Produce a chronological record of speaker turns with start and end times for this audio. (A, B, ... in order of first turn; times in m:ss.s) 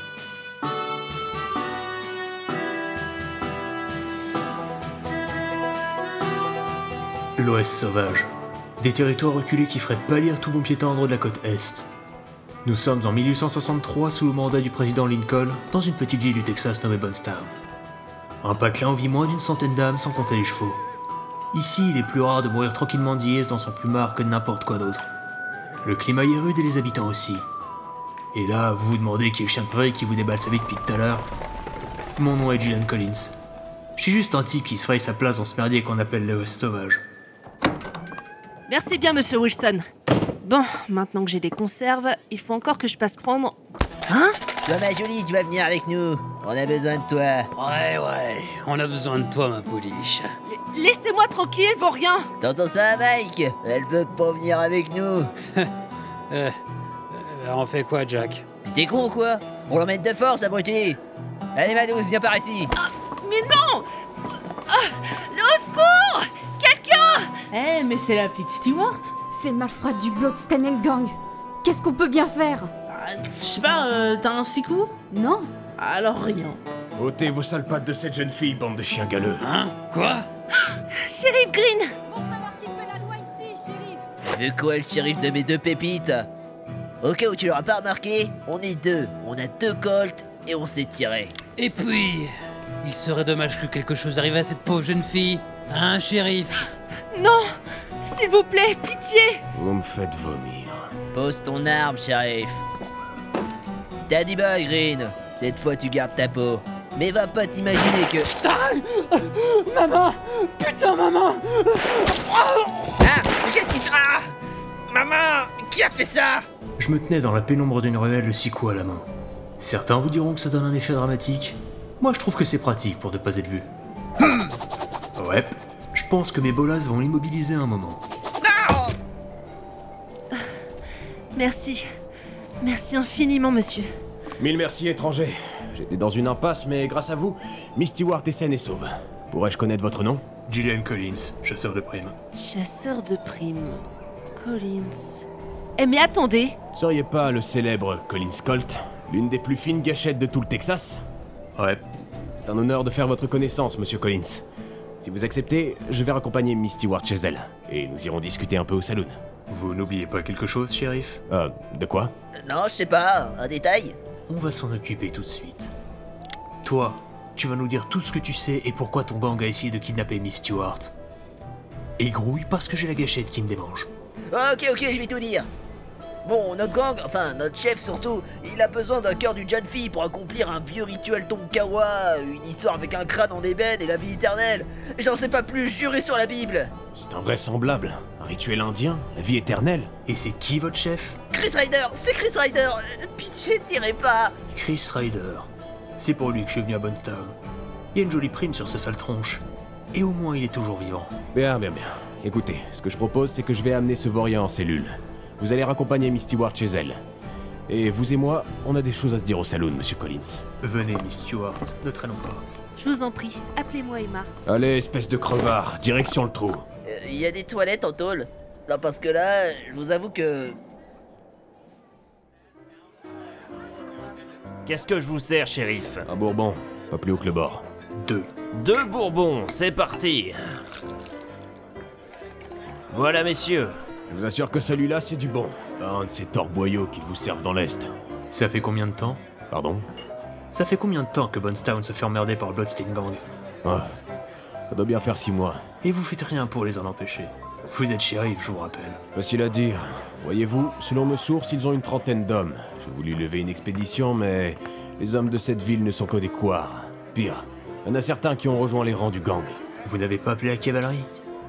0:07.4-0:11.9 A
0:12.6-0:17.5 A
0:18.4-0:20.8 A
0:21.5-0:25.1 A
0:25.8-0:27.4 A
0:28.3-0:31.2 A
0:32.2-0:33.3 A
0:34.0-0:37.0 A
0:38.7-0:39.8 B
0:40.4-0:43.6 B
0:44.1-0:44.4 B
0:44.6-0:47.5 C
0:47.6-0:50.3 D
0:50.4-0:52.3 B
0:52.4-0:55.3 C
0:56.3-0:56.6 D
0:57.1-0:58.4 D
0:58.6-1:01.0 C
1:01.5-1:02.7 C
1:02.8-1:03.9 B
1:04.7-1:07.5 B
1:07.5-1:09.2 E
1:09.3-1:12.7 F
1:12.9-1:15.0 E
1:15.0-1:15.5 F
1:15.7-1:16.6 E
1:16.9-1:19.5 G
1:19.4-1:20.2 D
1:20.7-1:21.9 B
1:22.1-1:24.0 F
1:24.3-1:26.2 C
1:27.0-1:31.3 C
1:31.6-1:32.3 D
1:32.8-1:36.7 D
1:37.1-1:37.4 B
1:38.0-1:39.4 B
1:39.5-1:40.8 G
1:41.1-1:42.6 C
1:44.1-1:48.3 C
1:48.4-1:52.9 D
1:53.0-1:54.2 C
1:54.9-1:56.4 C
1:56.8-1:59.1 A
1:59.6-2:03.7 A
2:05.2-2:08.0 A
2:11.3-2:11.8 B
2:12.6-2:13.9 B
2:14.4-2:20.2 G
2:20.5-2:22.1 A
2:22.3-2:23.8 B
2:24.3-2:25.2 B
2:25.8-2:26.6 B
2:26.7-2:31.0 G
2:31.5-2:31.8 A
2:32.4-2:34.4 G
2:35.0-2:39.2 G
2:39.5-2:41.2 A
2:41.3-2:42.1 G
2:42.4-2:44.0 C
2:44.3-2:45.7 A
2:46.6-2:50.9 A
2:52.0-2:53.9 A
2:54.3-2:55.5 C
2:56.2-3:06.7 C
3:06.9-3:09.9 G
3:10.0-3:11.2 A
3:11.3-3:14.3 C
3:14.5-3:17.4 A
3:17.9-3:21.1 A
3:21.3-3:27.0 G
3:27.7-3:30.4 G
3:30.6-3:32.4 A
3:32.8-3:34.3 B
3:34.4-3:36.6 G
3:36.8-3:40.6 C
3:44.6-3:46.0 H
3:46.0-3:47.6 G
3:48.0-3:48.3 A
3:48.5-3:50.4 H
3:52.9-3:53.8 H
3:54.1-3:57.9 G
3:58.3-3:59.2 A
3:59.5-3:59.9 G
4:00.5-4:03.2 A
4:04.7-4:05.6 G
4:05.8-4:09.0 A
4:09.1-4:19.6 G
4:19.8-4:21.1 A